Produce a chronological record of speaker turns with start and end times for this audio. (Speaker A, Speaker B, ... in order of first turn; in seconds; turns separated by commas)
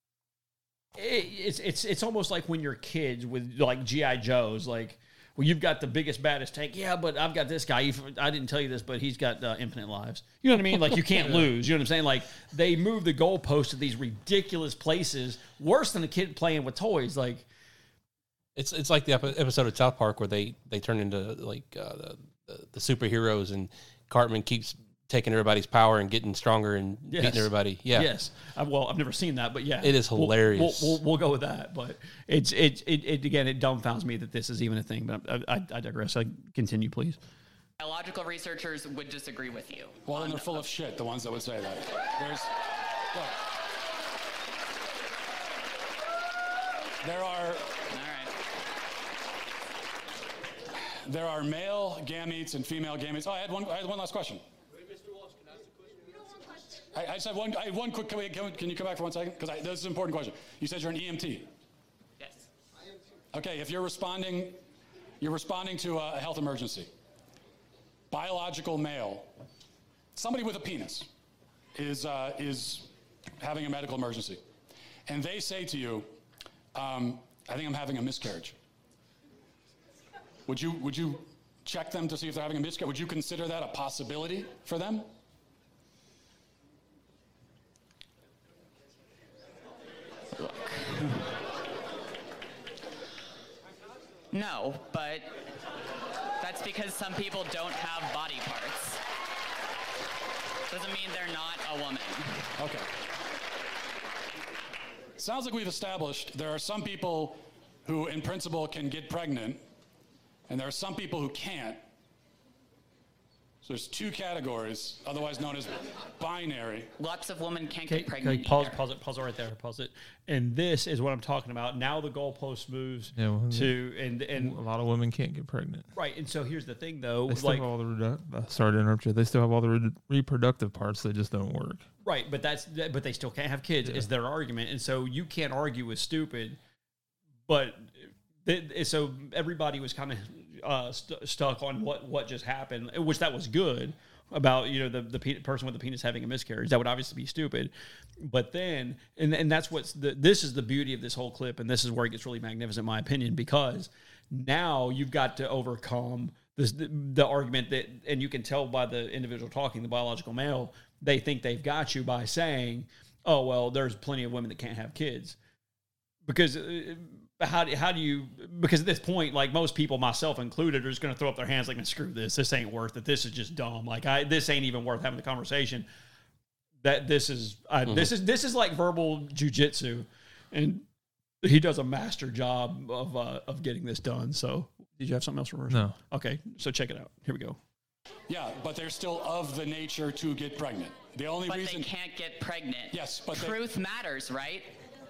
Speaker A: 0.9-17.4, Speaker B: 11.2-11.5, Speaker C: 18.6-28.1, Speaker A: 27.1-37.2, Speaker C: 29.8-31.0, Speaker D: 37.8-40.7, Speaker E: 40.0-42.5, Speaker E: 47.0-47.7, Speaker D: 47.9-48.3, Speaker E: 51.0-54.4, Speaker E: 56.9-61.5, Speaker E: 63.3-64.6, Speaker E: 65.2-66.9, Speaker E: 68.1-69.3, Speaker E: 70.1-71.1, Speaker E: 71.7-74.4, Speaker E: 75.0-76.1, Speaker E: 76.7-78.6, Speaker E: 80.5-85.1, Speaker D: 90.4-91.2, Speaker D: 94.3-95.5, Speaker D: 96.4-99.0, Speaker D: 100.7-102.4, Speaker E: 102.6-102.9, Speaker E: 105.2-109.6, Speaker E: 110.5-111.8, Speaker E: 113.6-116.9, Speaker D: 117.0-118.8, Speaker A: 117.9-124.5, Speaker B: 123.1-123.8, Speaker B: 124.3-125.9, Speaker A: 125.9-127.7, Speaker B: 127.3-131.9, Speaker A: 132.0-136.6, Speaker A: 137.5-165.3, Speaker A: 166.2-175.9, Speaker A: 176.8-180.8, Speaker A: 181.4-187.6, Speaker B: 185.7-186.0, Speaker E: 188.3-191.9, Speaker D: 191.4-194.8, Speaker E: 192.9-193.6